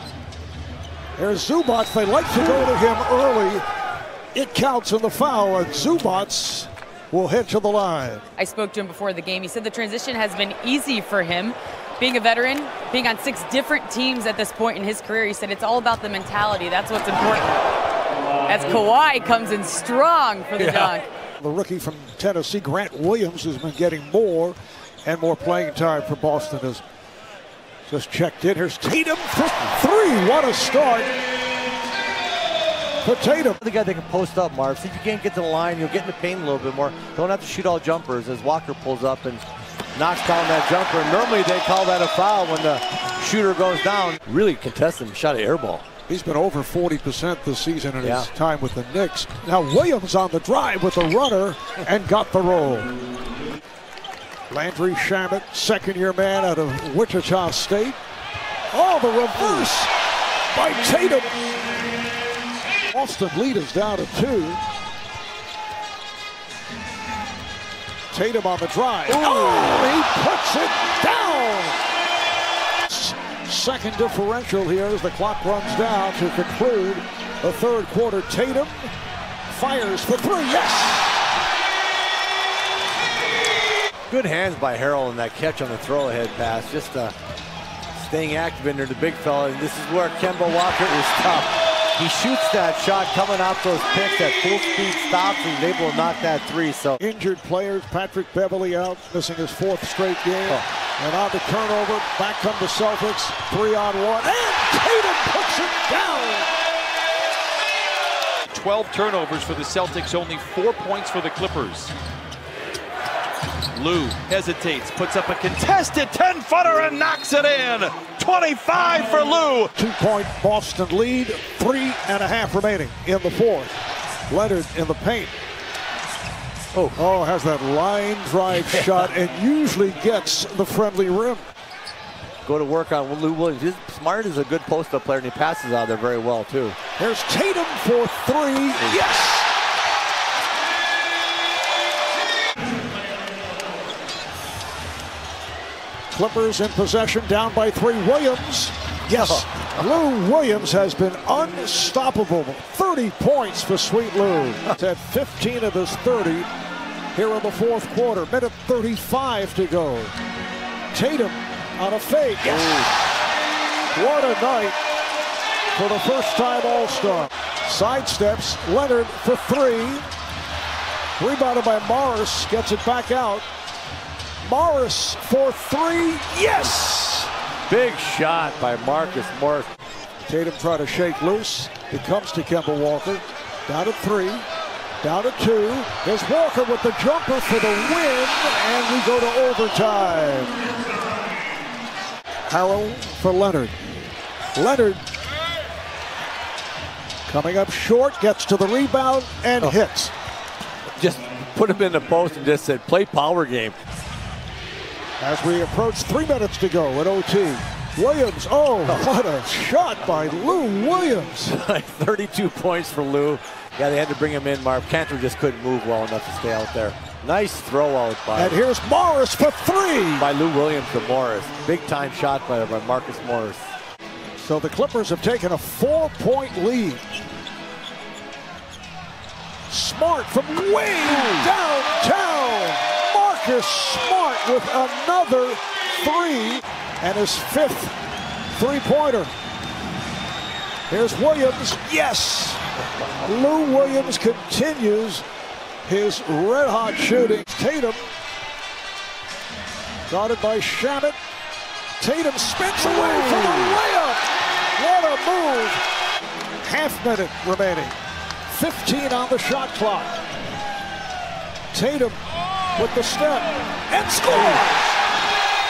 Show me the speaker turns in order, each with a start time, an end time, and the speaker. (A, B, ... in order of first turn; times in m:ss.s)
0:01.2-0:03.6 A
0:04.3-0:08.2 A
0:08.4-0:17.6 B
0:18.4-0:21.0 B
0:20.6-0:20.9 C
0:21.4-0:26.8 A
0:27.9-0:31.1 A
0:33.0-0:33.6 A
0:33.6-0:39.4 C
0:39.9-0:45.8 C
0:46.1-0:52.9 A
0:48.0-0:48.3 C
0:54.5-0:58.0 A
0:58.7-0:59.9 A
1:00.5-1:01.5 A
1:02.9-1:04.6 A
1:08.1-1:11.8 A
1:09.2-1:09.9 C
1:12.9-1:18.9 A
1:19.5-1:21.2 A
1:24.1-1:27.1 C
1:27.9-1:37.0 C
1:37.0-1:46.5 A
1:48.5-1:51.9 D
1:53.7-1:59.7 D
1:59.7-2:03.7 A
2:04.3-2:05.3 A
2:06.7-2:07.0 C
2:07.0-2:11.4 A
2:08.5-2:09.1 C
2:12.4-2:16.8 C
2:17.0-2:19.4 A
2:18.8-2:19.1 C
2:26.1-2:36.5 A
2:29.1-2:29.6 C
2:37.1-2:40.1 A
2:40.9-2:42.9 A
2:42.4-2:43.0 C
2:43.9-2:44.8 A
2:45.7-2:50.1 A
2:51.2-2:53.4 A
2:54.4-2:57.2 A
2:56.4-2:57.1 C
2:57.7-2:59.7 C
3:00.2-3:04.4 A
3:05.0-3:10.6 A
3:12.5-3:13.8 A
3:14.5-3:15.0 A
3:17.3-3:20.1 A
3:21.0-3:23.7 C
3:25.2-3:31.5 A
3:31.4-3:38.6 C
3:38.3-3:40.3 A
3:40.2-3:43.6 C
3:44.4-3:47.0 A
3:49.7-3:58.0 A
3:50.9-3:51.5 C
3:58.5-3:59.3 A
4:00.9-4:02.6 A
4:03.2-4:05.2 A
4:05.8-4:08.1 A
4:10.1-4:11.2 A
4:12.0-4:14.2 A
4:12.9-4:13.8 C
4:14.8-4:15.8 A
4:16.6-4:17.9 A
4:18.5-4:20.2 A
4:21.7-4:22.2 A
4:22.8-4:25.0 A
4:24.3-4:24.7 C